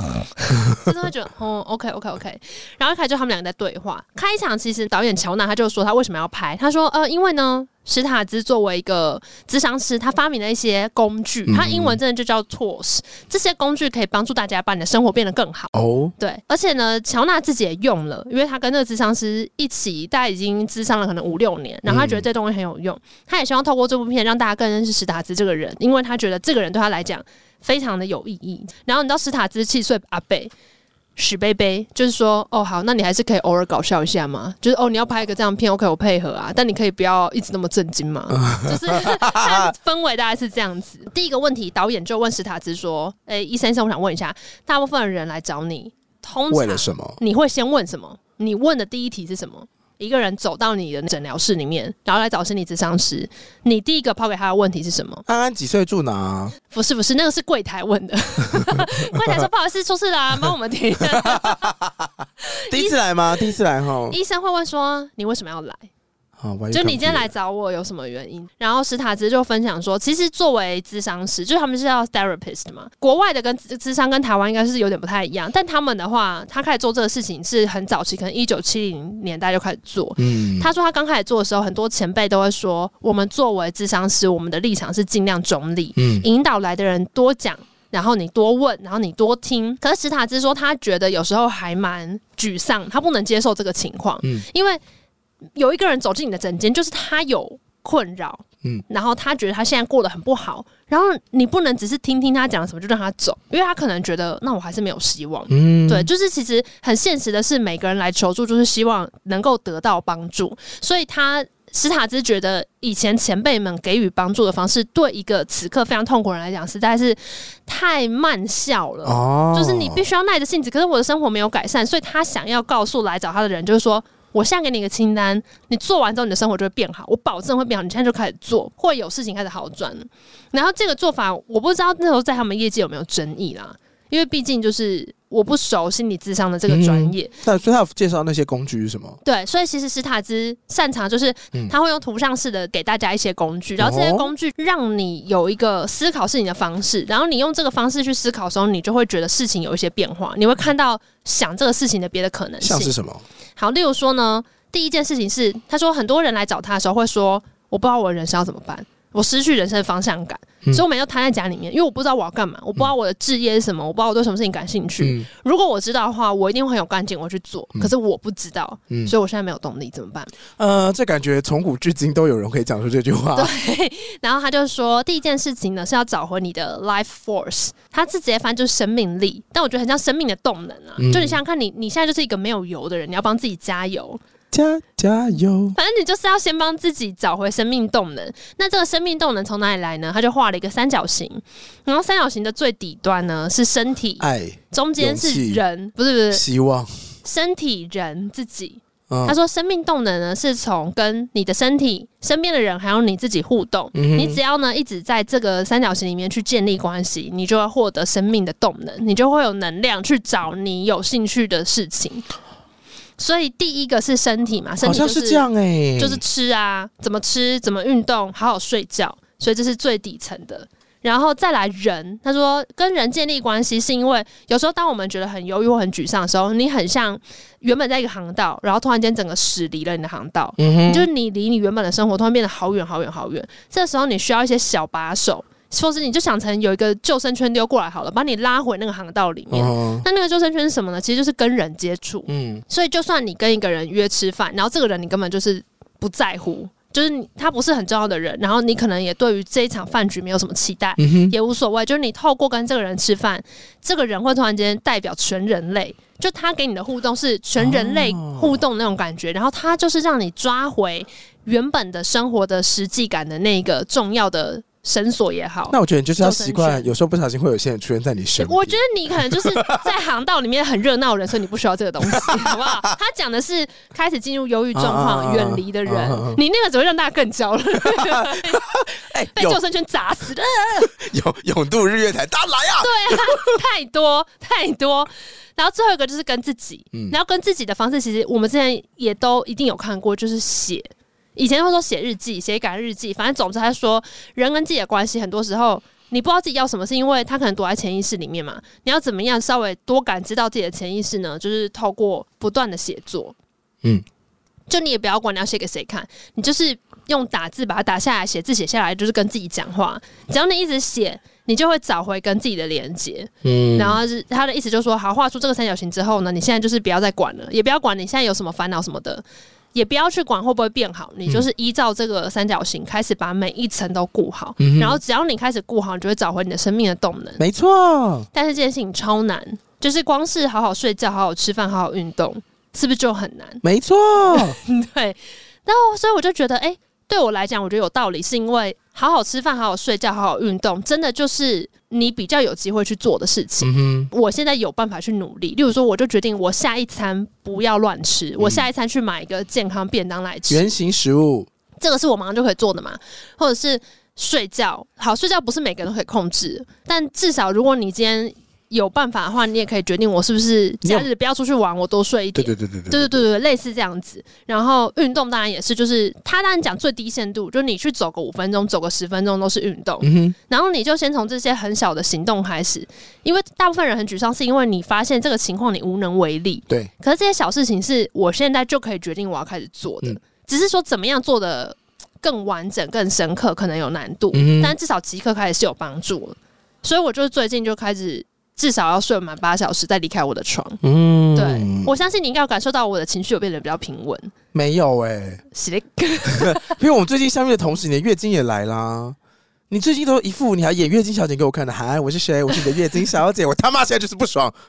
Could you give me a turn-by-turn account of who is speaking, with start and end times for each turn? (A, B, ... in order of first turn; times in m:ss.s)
0:00.3-0:30.5 A
0:11.5-0:12.0 B
0:15.7-0:16.1 B
0:21.9-0:22.2 B
0:31.2-0:55.2 A
0:38.3-0:39.7 B
0:46.5-0:47.2 B
0:55.3-0:56.6 B
0:56.7-1:01.7 A
0:58.6-0:59.5 B
1:01.1-1:02.1 B
1:02.5-1:03.5 A
1:02.7-1:04.2 B
1:04.1-1:05.9 A
1:06.4-1:07.3 B
1:06.7-1:34.8 A
1:20.2-1:20.7 B
1:26.0-1:26.3 B
1:35.6-2:17.3 A
1:45.5-1:46.1 B
1:59.0-2:00.0 B
2:16.7-2:19.2 B
2:19.2-2:32.9 A
2:23.8-2:24.3 B
2:32.6-2:33.2 B
2:33.6-2:50.3 A
2:45.0-2:45.3 B
2:50.6-2:53.5 B
2:53.4-3:04.2 A
3:01.0-3:01.4 B
3:04.5-3:05.8 B
3:05.8-3:16.4 A
3:14.2-3:15.6 B
3:16.3-3:17.0 B
3:17.2-3:32.2 A
3:19.1-3:19.4 B
3:23.9-3:24.4 B
3:33.2-3:35.5 A
3:34.8-3:36.2 B
3:36.0-4:26.9 A
3:50.6-3:51.1 B
3:59.5-4:00.0 B
4:02.3-4:02.6 B
4:11.0-4:11.3 B
4:17.6-4:18.6 B
4:25.7-4:29.8 B
4:28.4-4:38.6 A
4:32.1-4:32.8 B
4:34.8-4:36.4 B
4:37.8-4:39.6 B
4:39.3-4:40.9 A
4:40.9-4:43.5 B
4:42.8-5:03.4 A
5:04.7-5:19.2 A
5:13.4-5:14.0 B
5:19.7-5:27.4 A
5:24.6-5:25.0 B
5:27.4-5:28.3 B
5:28.3-5:33.6 A
5:33.6-5:34.6 B
5:34.3-5:50.7 A
5:43.6-5:44.1 B
5:48.4-5:48.7 B
5:50.5-5:51.5 B
5:51.8-6:30.8 A
6:02.4-6:03.2 B
6:10.0-6:10.4 B
6:24.3-6:24.8 B
6:30.8-6:31.9 B
6:31.4-6:34.3 A
6:34.5-6:35.4 B
6:35.5-6:36.8 A
6:36.3-6:39.2 B
6:39.7-6:44.6 B